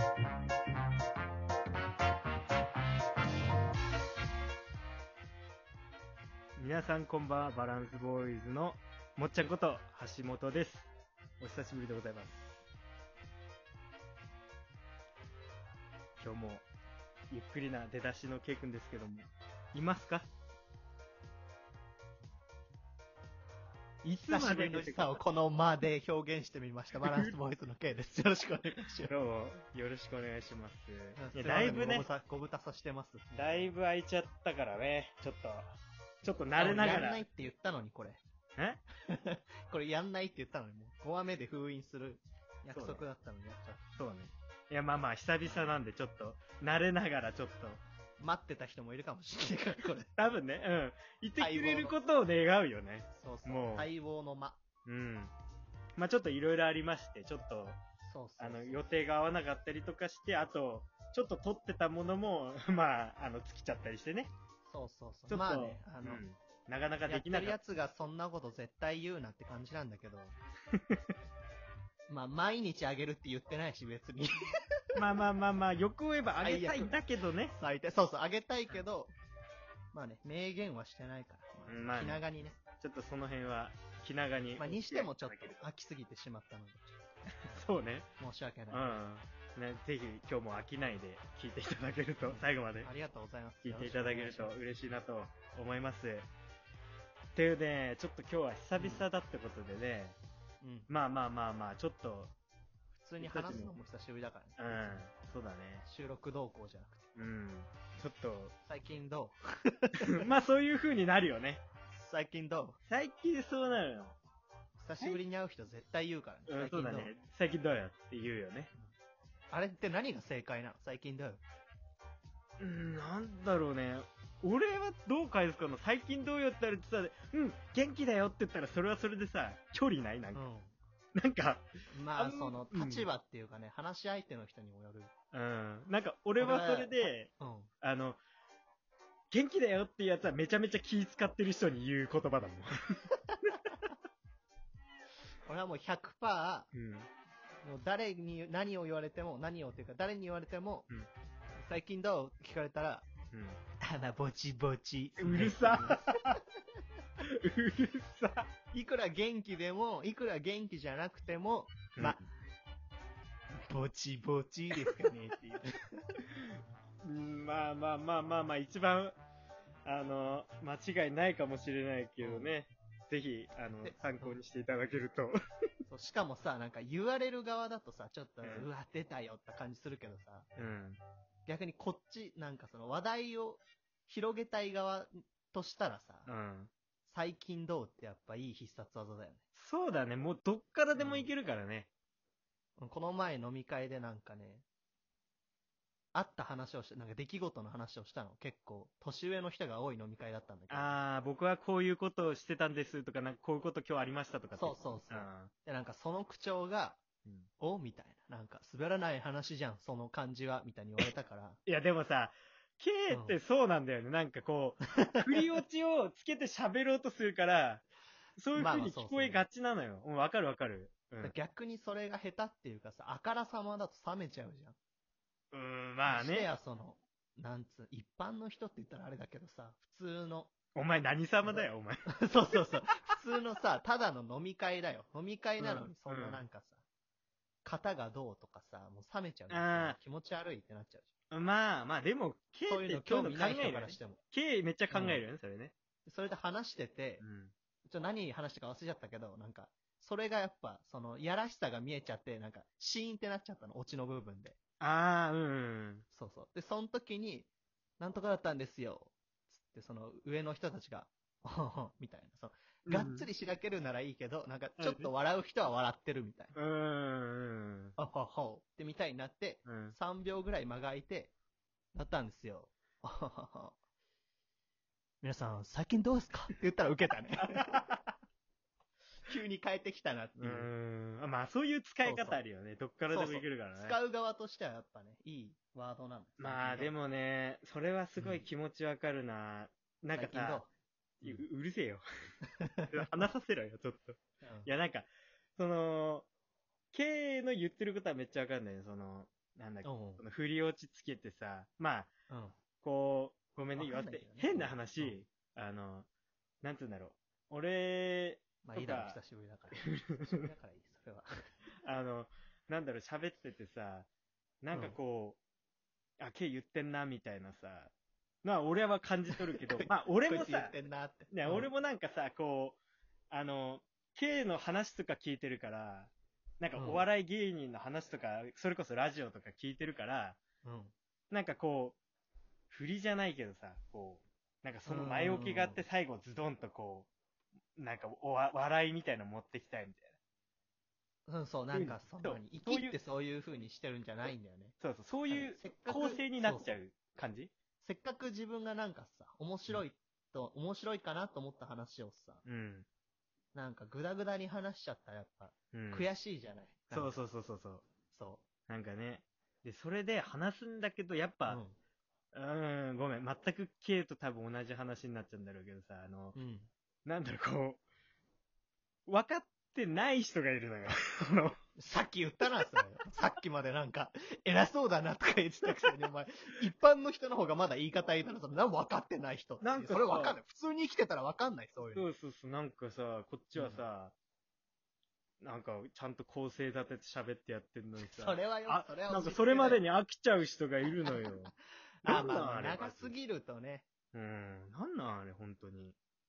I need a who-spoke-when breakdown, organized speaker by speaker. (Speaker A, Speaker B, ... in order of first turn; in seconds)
Speaker A: 6.6-12.6, 16.2-16.7, 17.3-20.3, 24.0-25.2, 27.0-27.3, 29.0-32.1, 33.3-37.2, 42.7-43.0, 44.0-47.8, 50.2-53.9, 54.9-55.3, 56.0-57.8, 58.4-64.3, 65.3-67.6, 70.7-71.0, 75.0-77.5, 81.7-82.2, 82.8-85.7, 87.5-88.1, 88.7-92.9, 93.6-96.3, 97.3-100.2, 100.9-102.3, 103.2-103.7, 104.6-105.8, 107.2-108.5, 110.1-111.6, 112.9-114.2, 116.5-118.7, 122.6-130.4, 131.2-133.1, 135.3-137.3, 137.8-138.2, 139.3-142.7, 146.7-147.1, 153.3-153.6, 155.2-156.4, 157.2-158.5, 161.9-162.3, 166.3-169.2, 169.8-175.3, 178.4-178.7, 180.6-181.0, 186.3-186.7, 189.6-191.9, 200.7-205.5, 211.7-217.8, 218.4-221.3, 225.5-226.5, 230.8-232.2, 235.6-236.4, 239.5-240.0, 241.3-245.7, 247.2-247.5, 254.8-256.1, 262.9-263.3, 264.8-265.1, 266.6-267.9, 269.7-269.9, 277.4-278.0, 280.4-284.0, 286.4-290.6, 291.2-292.1, 292.9-296.3, 296.9-302.1, 302.8-306.1, 306.6-309.2, 309.9-310.4, 311.9-314.1, 314.6-315.4, 316.2-317.9, 318.4-320.8, 321.3-322.8, 323.3-330.4, 331.3-332.0, 332.7-337.1, 337.8-340.2, 341.7-343.0, 344.8-347.5, 352.4-352.9, 355.7-356.1, 356.9-357.9, 358.7-361.6, 362.3-366.4, 367.1-367.8, 369.1-371.6, 379.6-380.4, 381.9-384.1, 385.4-391.5, 392.0-393.2, 394.1-396.0
Speaker B: 24.3-29.1, 31.2-33.7, 36.6-38.2, 39.1-43.8, 48.2-50.1, 51.4-52.0, 53.1-54.6, 58.1-58.9, 64.7-66.2, 67.1-70.3, 72.1-75.0, 76.4-77.0, 77.5-79.1, 79.9-82.6, 84.6-86.9, 88.2-89.0, 92.2-94.6, 98.8-99.1, 100.6-100.9, 103.0-105.1, 105.8-107.1, 108.7-110.3, 111.9-112.8, 114.8-117.1, 119.5-121.4, 130.3-130.8, 131.9-135.1, 136.4-137.7, 145.5-146.7, 147.6-150.9, 151.6-153.1, 153.8-156.1, 158.7-162.2, 163.7-166.2, 172.2-172.6, 173.8-174.4, 175.9-180.5, 181.5-186.3, 187.1-189.4, 191.0-191.3, 192.8-194.7, 196.1-200.9, 204.6-207.0, 207.6-211.6, 213.1-213.4, 218.5-219.4, 221.2-224.8, 226.1-230.5, 232.2-236.8, 237.7-241.1, 242.7-244.2, 244.9-245.2, 246.1-247.2, 247.9-254.6, 256.1-257.5, 258.0-266.6, 268.0-271.3, 271.9-273.8, 275.2-277.8, 279.3-280.7, 282.0-282.4, 283.1-286.9, 288.2-288.4, 290.1-290.7, 292.6-293.0, 294.4-294.7, 299.9-300.2, 302.3-302.6, 303.8-305.1, 308.6-311.3, 319.8-321.7, 326.8-327.0, 330.6-330.9, 334.9-335.8, 341.3-346.8, 347.8-352.4, 353.5-357.2, 358.1-358.4, 361.5-361.8, 366.4-366.7, 371.8-382.1, 383.6-383.8, 388.0-389.8, 391.1-391.5, 392.0-393.9